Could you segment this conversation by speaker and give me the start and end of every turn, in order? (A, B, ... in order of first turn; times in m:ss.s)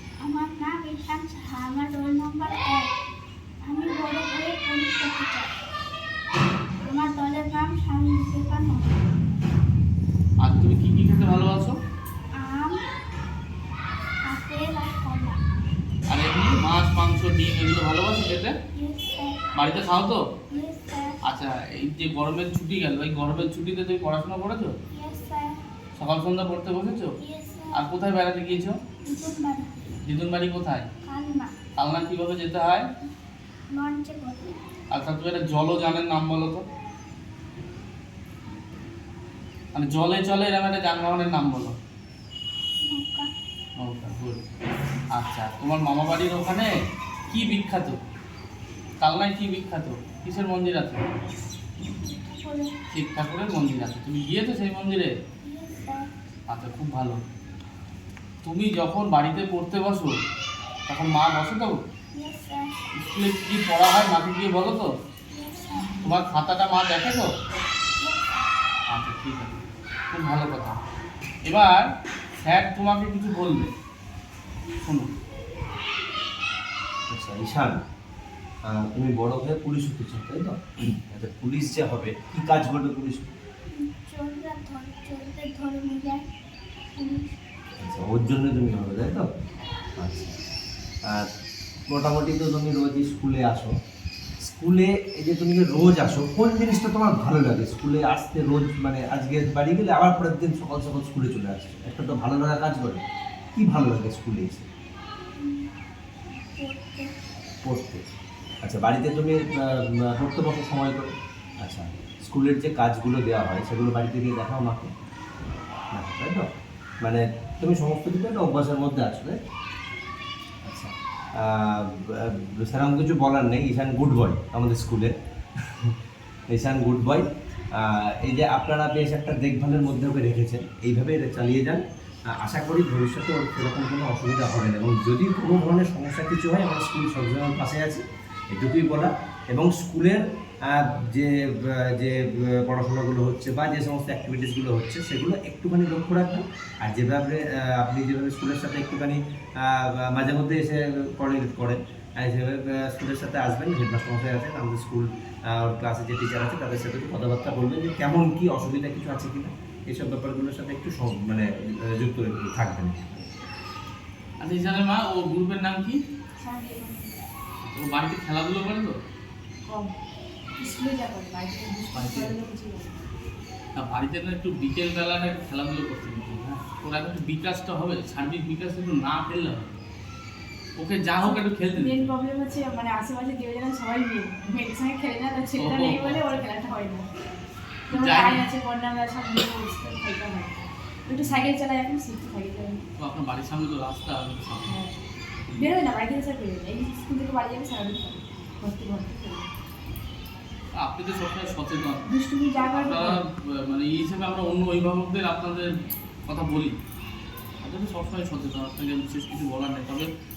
0:00.2-0:02.9 A
0:03.6-0:05.5 A
0:06.8-0:09.1 A
0:10.4-0:11.7 B
0:12.4-0:12.8 A
0:14.3-0:15.4 A
0:16.1-0:18.5 B
0:18.7-0:19.7 A
0:19.5-0:20.2 B
0:20.5-0:21.2 A
0:21.2-0:24.7 B
0:24.9-0:25.6 A
0:26.0-0:27.1 B
0:27.2-0:27.8 A
0:27.7-0:28.8 B
0:29.0-0:29.7 A
0:30.0-0:30.9 B
0:31.0-0:31.5 A
0:31.8-0:32.8 B
0:33.7-0:34.6 A
0:34.9-0:36.6 B
0:39.7-0:41.8 B
0:42.8-0:43.3 A
0:43.8-0:44.4 B
0:45.1-0:46.7 B
0:47.3-0:48.0 B
0:49.0-0:51.0 B
0:52.0-0:52.7 A
0:52.9-0:55.1 B
0:55.4-0:56.1 A
0:56.5-0:57.2 B
0:58.4-1:00.1 B
1:00.9-1:01.8 B
1:02.1-1:02.9 A
1:03.0-1:04.9 B
1:05.3-1:06.1 A
1:06.0-1:07.3 B
1:08.0-1:08.4 A
1:08.9-1:10.8 B
1:11.5-1:11.9 B
1:12.4-1:13.7 B
1:14.8-1:15.1 B
1:17.1-1:17.8 C
1:18.6-1:23.3 C
1:23.7-1:26.2 A
1:26.9-1:27.3 A
1:27.8-1:29.3 C
1:30.0-1:30.3 C
1:31.9-1:33.7 C
1:34.4-1:43.0 C
1:43.5-1:44.6 C
1:45.4-1:45.7 A
1:46.3-1:47.1 A
1:47.6-1:48.0 C
1:48.6-1:54.9 C
1:55.9-1:56.5 C
1:57.0-1:59.4 C
2:00.6-2:05.1 C
2:05.6-2:05.9 C
2:06.5-2:43.3 C
2:44.4-2:46.0 B
2:46.4-2:47.1 D
2:47.7-2:49.0 B
2:49.6-2:49.9 D
2:50.6-2:53.0 D
2:51.9-2:52.3 B
2:53.7-2:59.8 B
3:00.8-3:02.1 B
3:01.2-3:07.1 D
3:05.6-3:06.4 B
3:07.9-3:12.8 D
3:07.9-3:08.4 B
3:11.1-3:11.4 B
3:13.0-3:14.8 B
3:14.6-3:14.9 D
3:15.5-3:19.5 D
3:20.7-3:22.0 B
3:22.0-3:23.2 D
3:22.7-3:25.7 B
3:26.2-3:26.8 B
3:27.6-3:30.1 B